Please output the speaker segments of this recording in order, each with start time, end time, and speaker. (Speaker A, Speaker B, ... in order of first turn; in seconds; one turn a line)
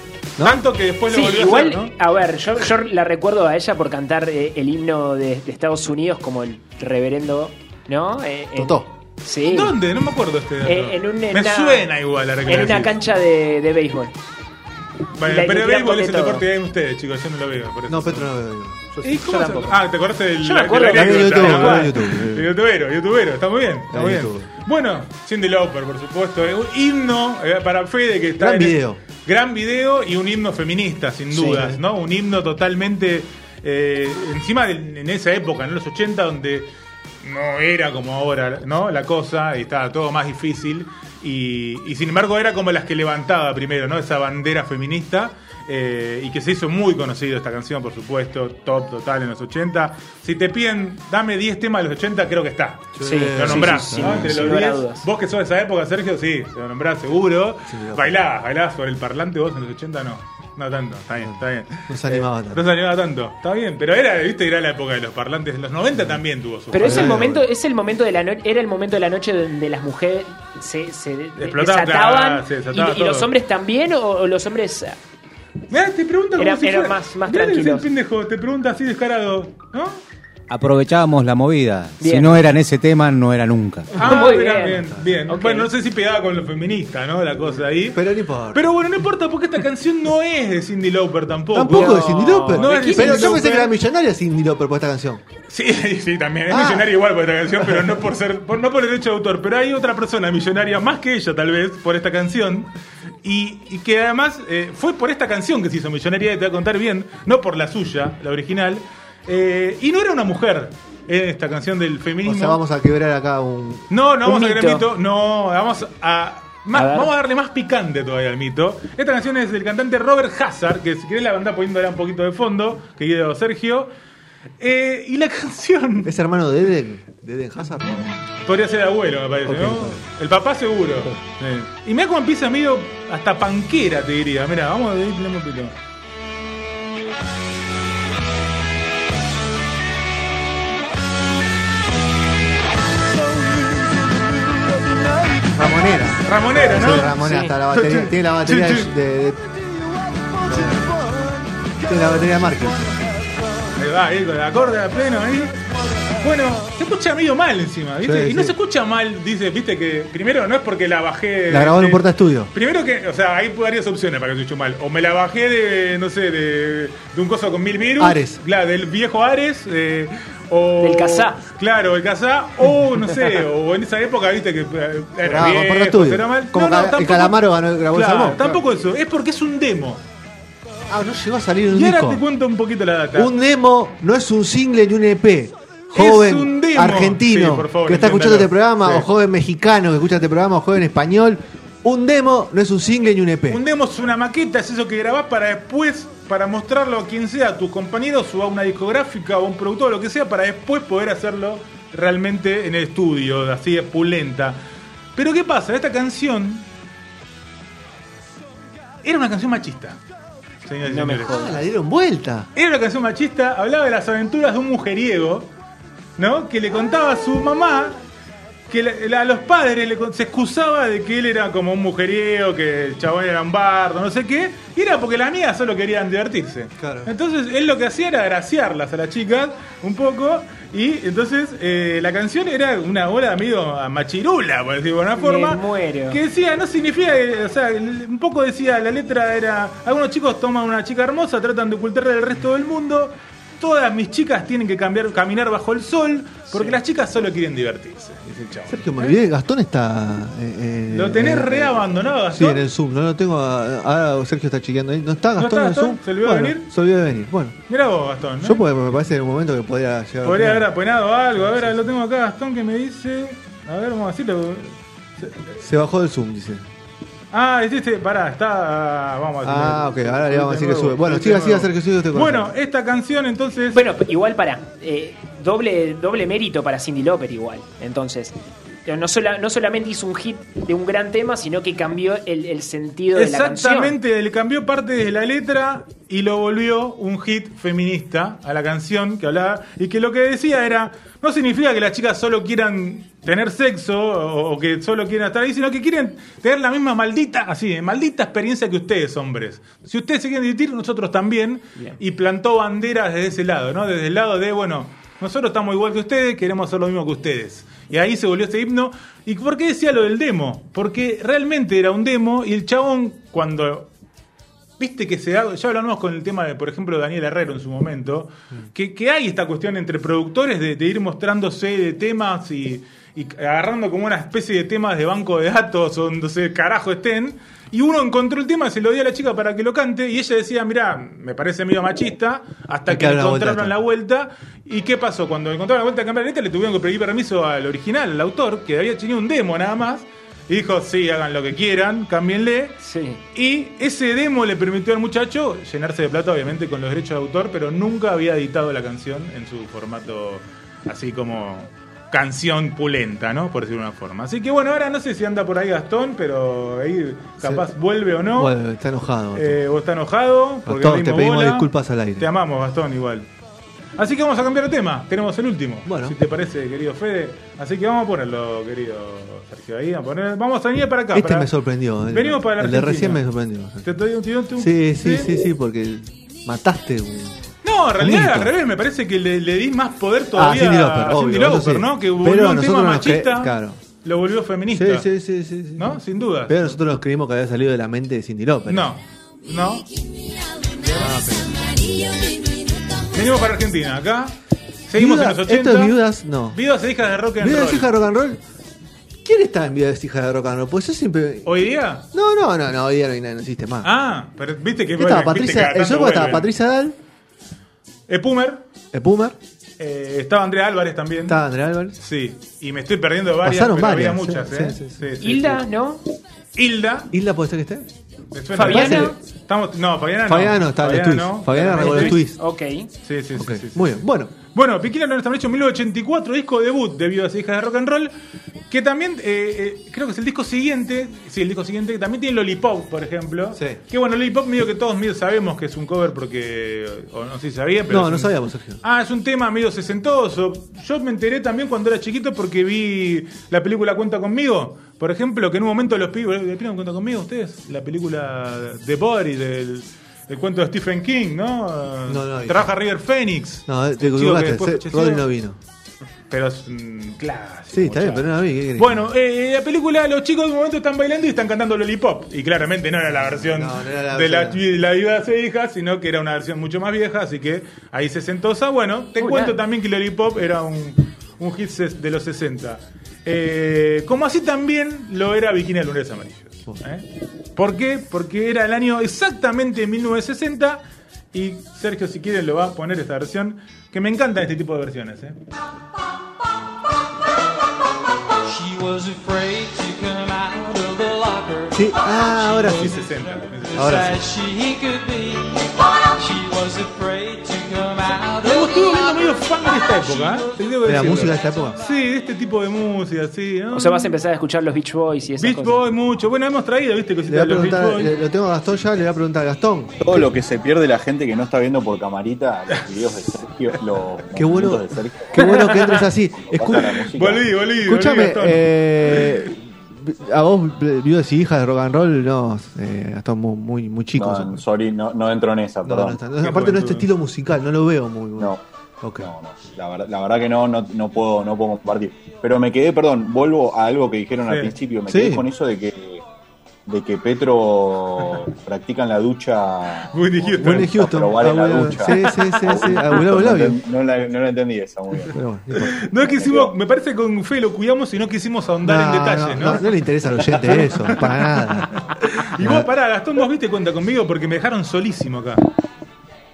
Speaker A: 0.4-1.9
Speaker B: 1.1-9.8
Speaker C: 8.6-8.9
Speaker A: 9.4-12.9
Speaker B: 10.6-11.9
Speaker B: 12.4-14.2
Speaker A: 15.2-18.3
Speaker B: 15.2-16.4
Speaker C: 17.9-19.0
Speaker B: 19.0-19.8
Speaker A: 19.0-36.7
Speaker B: 20.4-21.9
Speaker C: 20.9-22.5
Speaker C: 23.9-24.5
Speaker C: 28.4-29.0
Speaker B: 31.3-31.6
Speaker C: 31.4-31.8
Speaker A: 37.2-67.2
Speaker C: 52.9-54.6
Speaker B: 53.0-55.0
Speaker C: 57.7-58.1
Speaker C: 61.9-62.6
Speaker B: 66.7-75.0
Speaker C: 66.8-67.4
Speaker A: 71.4-73.3
Speaker A: 75.7-80.0
Speaker B: 76.4-77.9
Speaker D: 80.5-83.9
Speaker B: 82.0-82.5
Speaker A: 83.9-93.7
Speaker B: 83.9-85.7
Speaker C: 87.9-88.6
Speaker C: 91.5-95.2
Speaker B: 91.7-93.4
Speaker A: 95.5-112.6
Speaker C: 96.5-97.0
Speaker C: 112.2-113.9
Speaker A: 113.9-123.9
Speaker B: 114.2-114.8
Speaker B: 116.7-117.1
Speaker A: 124.6-126.1
Speaker C: 126.0-128.1
Speaker A: 128.4-135.8
Speaker C: 129.4-130.0
Speaker C: 145.5-149.5
Speaker A: 146.2-147.2
Speaker B: 147.2-147.5
Speaker A: 147.7-148.9
Speaker C: 150.4-150.9
Speaker C: 151.8-152.8
Speaker A: 153.7-155.6
Speaker A: 156.2-180.0
Speaker C: 158.0-158.5
Speaker C: 161.5-162.5
Speaker C: 168.0-168.4
Speaker B: 170.8-171.4
Speaker C: 175.2-178.6
Speaker C: 180.9-182.2
Speaker A: 181.7-183.3
Speaker C: 183.1-193.6
Speaker A: 185.9-189.1
Speaker A: 193.5-204.6
Speaker A: 205.2-206.7
Speaker A: 209.0-210.0
Speaker A: 210.7-211.5
Speaker B: 210.8-211.6
Speaker C: 211.3-212.5
Speaker A: 212.5-215.5
Speaker A: 216.2-218.0
Speaker A: 218.7-249.1
Speaker C: 226.8-227.1
Speaker B: 235.2-236.2
Speaker C: 248.7-257.6
Speaker A: 250.9-252.6
Speaker A: 255.4-256.7
Speaker A: 257.7-258.6
Speaker C: 258.4-260.7
Speaker A: 260.2-265.6
Speaker C: 261.4-261.7
Speaker C: 265.6-266.6
Speaker A: 267.3-273.8
Speaker C: 269.4-272.5
Speaker B: 273.7-278.3
Speaker B: 278.9-283.9
Speaker A: 283.1-313.9
Speaker A: 314.8-342.8
Speaker C: 332.9-333.8
Speaker B: 342.8-343.2
Speaker A: 343.3-358.5
Speaker C: 357.4-357.6
Speaker C: 358.3-359.6
Speaker A: 359.3-363.3
Speaker C: 360.6-362.3
Speaker A: 364.0-371.5
Speaker C: 365.8-366.2
Speaker C: 371.1-374.0
Speaker A: 372.1-373.2
Speaker A: 373.8-375.3
Speaker C: 374.6-378.5
Speaker A: 377.6-385.1
Speaker C: 380.3-383.8
Speaker C: 384.7-388.9
Speaker A: 385.8-386.7
Speaker A: 388.7-389.9
Speaker C: 390.8-391.8
Speaker D: 391.6-393.1
Speaker A: 393.1-394.4
Speaker A: 394.9-396.0
Speaker C: 394.9-396.6
Speaker A: 396.5-397.9
Speaker C: 397.4-398.4
Speaker C: 399.2-403.9
Speaker A: 401.4-402.1
Speaker A: 403.8-406.5
Speaker C: 404.9-406.9
Speaker A: 408.1-408.6
Speaker C: 408.9-409.4
Speaker A: 409.8-411.4
Speaker C: 411.2-412.0
Speaker A: 412.0-415.6
Speaker C: 413.4-415.0
Speaker B: 415.2-416.0
Speaker A: 416.5-417.1
Speaker C: 417.1-417.9
Speaker A: 418.3-422.2
Speaker B: 418.5-419.1
Speaker C: 418.6-419.1
Speaker C: 420.2-422.4
Speaker B: 421.8-422.9
Speaker A: 423.0-423.9
Speaker C: 423.3-424.3
Speaker A: 424.4-428.1
Speaker A: 428.7-438.3
Speaker C: 437.9-438.8
Speaker A: 438.8-455.3
Speaker C: 452.1-452.8
Speaker C: 453.7-455.6
Speaker A: 456.3-480.8
Speaker C: 457.7-459.1
Speaker C: 463.1-464.6
Speaker B: 469.2-469.6
Speaker A: 481.3-485.4
Speaker E: 488.4-500.5
Speaker C: 491.7-493.1
Speaker A: 492.7-494.2
Speaker C: 493.8-494.2
Speaker A: 498.4-504.1
Speaker C: 500.8-501.8
Speaker B: 503.7-505.8
Speaker A: 505.4-508.1
Speaker C: 507.3-510.3
Speaker F: 510.0-517.4
Speaker C: 514.4-517.0
Speaker A: 516.7-519.4
Speaker C: 517.8-524.6
Speaker F: 524.1-526.2
Speaker C: 525.8-529.3
Speaker A: 526.4-527.1
Speaker F: 529.2-536.2
Speaker A: 534.4-534.7
Speaker C: 535.1-535.4
Speaker F: 536.9-545.4
Speaker A: 540.1-541.0
Speaker C: 540.6-543.8
Speaker A: 542.0-542.7
Speaker C: 545.3-546.1
Speaker A: 545.8-549.9
Speaker F: 546.4-546.7
Speaker C: 548.8-552.0
Speaker A: 550.5-555.6
Speaker C: 552.6-552.9